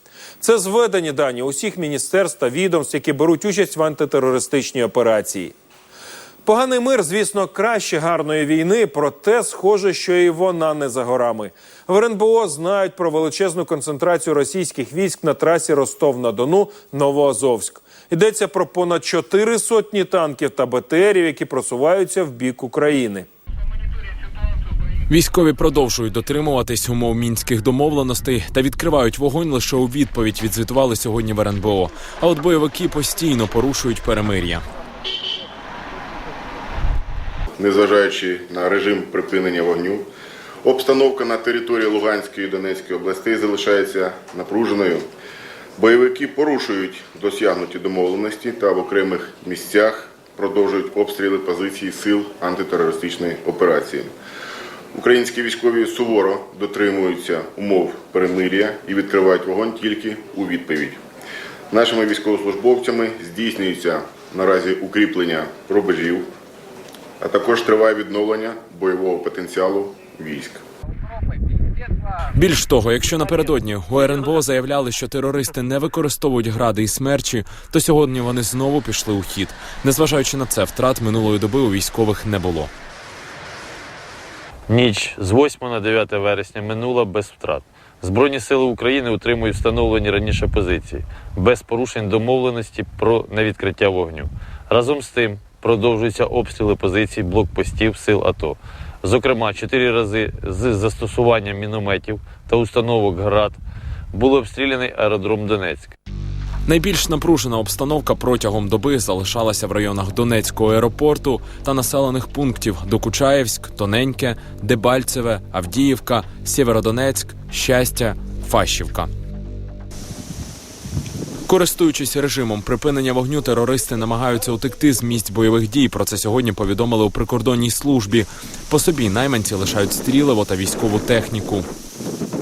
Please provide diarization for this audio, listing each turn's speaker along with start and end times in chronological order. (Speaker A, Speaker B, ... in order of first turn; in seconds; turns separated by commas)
Speaker A: 0.4-5.5, Speaker A: 6.5-23.3, Speaker B: 25.1-34.6, Speaker C: 37.6-40.1, Speaker C: 40.6-45.0, Speaker C: 45.8-54.1, Speaker C: 54.9-61.0, Speaker C: 61.7-66.3, Speaker C: 67.2-70.6, Speaker B: 72.3-82.7, Speaker D: 84.7-103.6, Speaker D: 104.1-106.0, Speaker B: 106.7-119.1, Speaker B: 121.5-131.7